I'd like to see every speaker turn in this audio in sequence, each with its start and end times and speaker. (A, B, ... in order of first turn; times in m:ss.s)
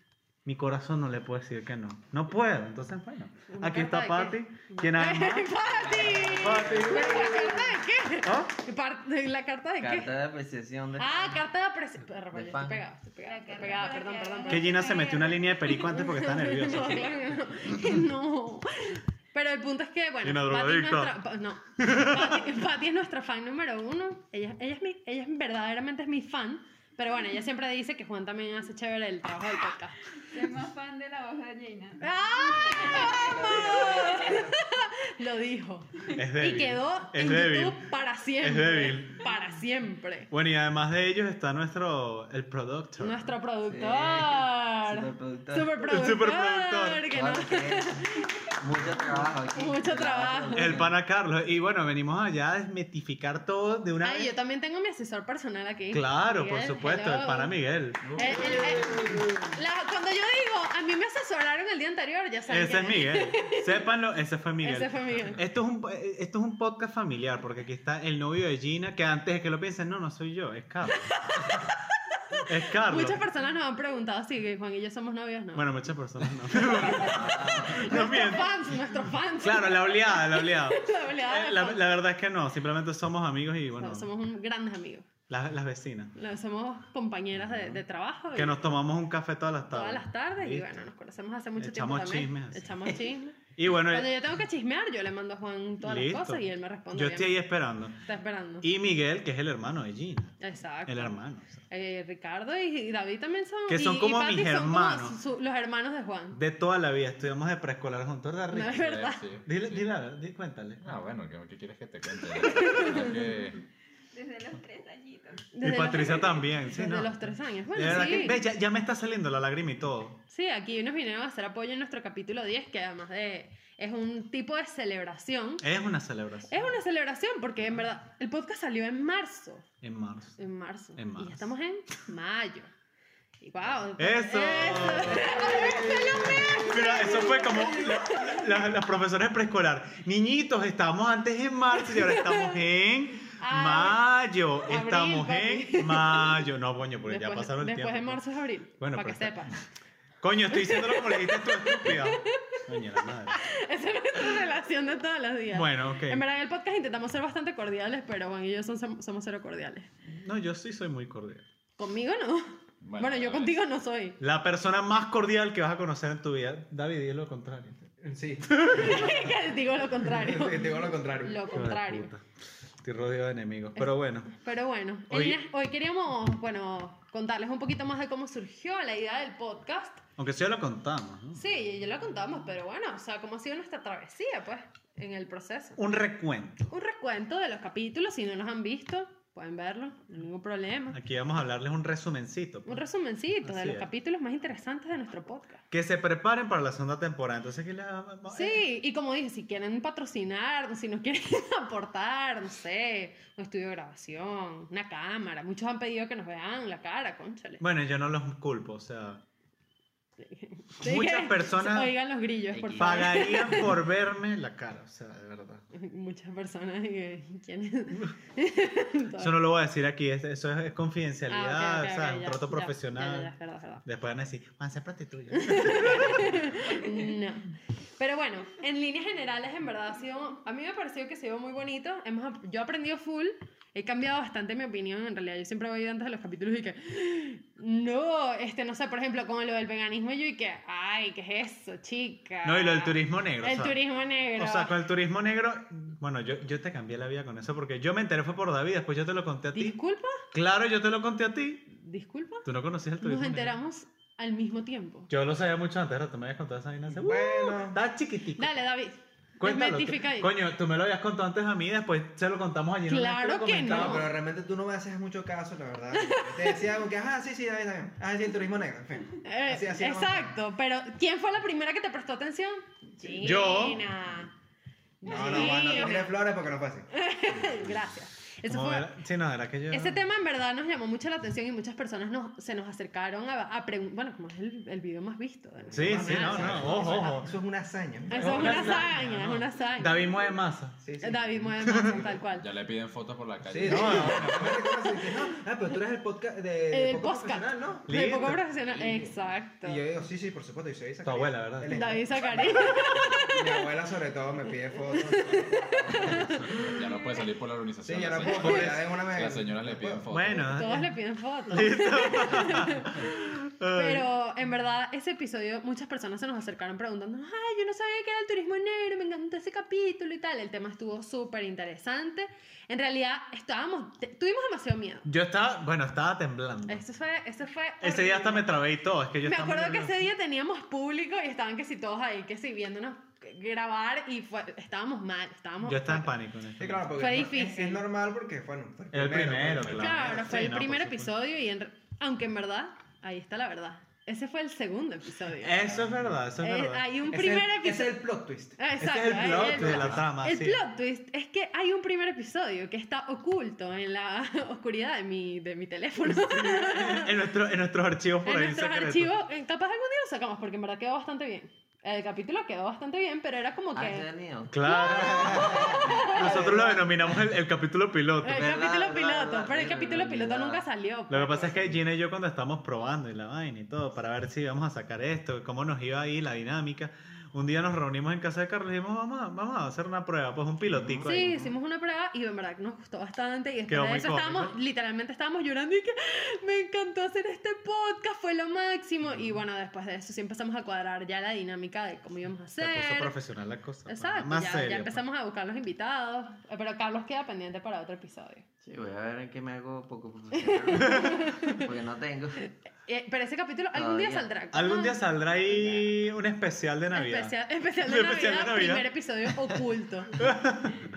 0:00.4-0:05.6 A
0:03.5-0:10.1 B
0:06.0-0:07.1 C
0:06.1-0:07.5 A
0:08.2-0:08.5 A
0:09.8-0:11.4 C
0:11.0-0:15.1 B
0:12.3-0:12.8 C
0:13.3-0:15.7 D
0:14.5-0:17.2 A
0:15.7-0:30.0 B
0:20.2-0:21.2 A
0:21.8-0:22.4 A
0:30.2-0:32.0 D
0:32.0-0:40.3 B
0:32.6-0:34.5 D
0:33.3-0:34.5 E
0:33.6-0:33.9 C
0:36.1-0:39.3 A
0:40.3-0:43.3 A
0:43.0-0:48.4 B
0:43.7-0:45.8 C
0:45.8-0:47.1 A
0:47.1-0:51.0 C
0:49.5-0:50.8 B
0:50.6-0:54.3 A
0:54.0-0:57.5 B
0:55.9-0:58.4 A
0:58.1-1:03.8 B
0:58.2-0:59.4 E
0:58.4-0:59.0 C
1:02.5-1:11.1 A
1:04.6-1:05.4 B
1:11.1-1:11.8 B
1:12.3-1:15.8 B
1:12.5-1:13.2 A
1:15.5-1:18.6 A
1:16.5-1:21.9 B
1:17.2-1:17.8 C
1:19.4-1:24.1 A
1:23.8-1:25.1 B
1:25.3-1:26.1 A
1:26.2-1:28.6 B
1:28.4-1:30.8 A
1:29.7-1:37.4 B
1:31.6-1:33.0 A
1:33.6-1:34.1 A
1:35.8-1:38.0 A
1:38.0-1:38.7 B
1:38.6-1:41.6 A
1:40.4-1:41.2 B
1:41.7-1:46.4 B
1:43.7-1:45.2 A
1:46.3-1:48.9 A
1:48.5-1:49.2 B
1:48.7-1:49.8 F
1:49.5-1:51.0 A
1:50.8-1:53.6 F
1:52.4-1:53.1 B
1:54.1-1:55.5 D
1:55.5-1:58.4 B
1:55.6-2:00.2 A
2:00.3-2:05.6 B
2:05.6-2:06.7 A
2:06.5-2:09.7 B
2:09.8-2:10.4 A
2:10.4-2:12.7 B
2:11.0-2:11.5 A
2:13.4-2:18.4 B
2:14.0-2:28.2 A
2:15.6-2:16.6 E
2:21.8-2:22.6 B
2:23.4-2:24.0 B
2:24.7-2:26.5 B
2:27.1-2:29.6 B
2:28.8-2:29.5 A
2:30.2-2:33.4 A
2:30.5-2:39.9 B
2:35.5-2:36.2 A
2:40.1-2:41.4 A
2:41.8-2:44.2 B
2:42.8-2:43.6 F
2:44.2-2:47.9 A
2:48.0-2:49.4 E
2:48.5-2:49.0 A
2:48.7-2:52.1 B
2:50.0-2:51.5 E
2:51.5-2:52.3 A
2:52.8-2:54.3 A
2:53.8-3:00.0 B
2:55.1-2:55.4 A
3:00.2-3:01.4 A
3:01.4-3:05.8 B
3:05.8-3:06.7 A
3:06.7-3:11.0 B
3:10.9-3:12.8 A
3:12.7-3:15.6 B
3:13.4-3:13.9 A
3:15.7-3:18.6 A
3:18.3-3:27.6 B
3:27.6-3:29.2 A
3:30.2-3:33.8 B
3:30.8-3:31.9 A
3:32.5-3:33.5 C
3:32.8-3:35.6 A
3:35.7-3:39.4 B
3:39.2-3:43.3 A
3:41.3-3:43.8 B
3:43.8-3:46.9 A
3:45.3-4:04.8 B
4:02.4-4:03.8 A
4:04.4-4:09.8 A
4:09.5-4:10.2 B
4:10.3-4:11.7 A
4:11.7-4:12.5 B
4:12.4-4:13.6 A
4:13.0-4:15.1 B
4:15.1-4:18.6 A
4:16.9-4:17.8 E
4:18.4-4:20.3 B
4:19.4-4:24.1 A
4:22.9-4:24.1 B
4:23.6-4:30.4 E
4:26.0-4:26.6 B
4:29.2-4:34.3 B
4:33.2-4:33.9 A
4:35.0-4:36.1 B
4:35.0-4:37.4 E
4:35.3-4:35.5 A
4:36.9-4:38.9 B
4:38.5-4:40.1 A
4:39.7-4:47.2 B
4:45.6-4:48.9 E
4:45.7-4:47.3 A
4:46.4-4:47.1 F
4:48.1-4:50.2 B
4:48.1-4:50.8 A
4:50.8-4:52.2 E
4:51.0-4:52.5 B
4:51.7-4:51.9 A
4:52.4-4:54.4 F
4:53.4-4:57.9 E
4:53.7-4:54.6 A
4:55.0-4:55.4 B
4:56.7-4:59.8 B
4:57.9-4:58.4 A
4:58.8-4:59.1 E
4:59.6-5:06.7 E
5:01.0-5:02.0 A
5:01.7-5:03.6 B
5:04.9-5:06.5 B
5:06.2-5:10.7 F
5:07.8-5:10.1 E
5:08.2-5:08.7 B
5:10.1-5:10.9 A
5:10.4-5:25.1 B
5:11.5-5:14.1 A
5:25.0-5:26.8 A
5:26.7-5:28.6 B
5:27.8-5:30.0 A
5:29.2-5:36.2 B
5:35.6-5:36.9 A
5:36.6-5:40.3 E
5:37.0-5:37.8 B
5:38.9-5:41.1 A
5:39.7-5:45.7 B
5:45.4-5:47.5 A
5:45.6-5:46.1 E
5:46.4-5:48.0 B
5:47.1-5:50.0 E
5:48.6-5:57.1 B
5:48.8-5:50.6 A
5:56.1-5:59.1 A
5:58.2-6:04.1 B
6:03.8-6:06.9 C
6:04.5-6:08.5 A
6:04.6-6:06.8 B
6:08.2-6:11.6 B
6:08.3-6:10.7 C
6:11.1-6:21.4 A
6:20.7-6:21.4 C
6:21.0-6:33.2 B
6:23.7-6:24.6 A
6:32.6-6:35.0 A
6:33.9-6:38.5 B
6:38.6-6:42.4 C
6:40.3-6:41.7 B
6:40.8-6:41.2 A
6:42.4-6:45.0 B
6:43.7-6:44.3 C
6:44.5-6:49.6 A
6:46.9-6:50.2 B
6:50.2-6:50.9 A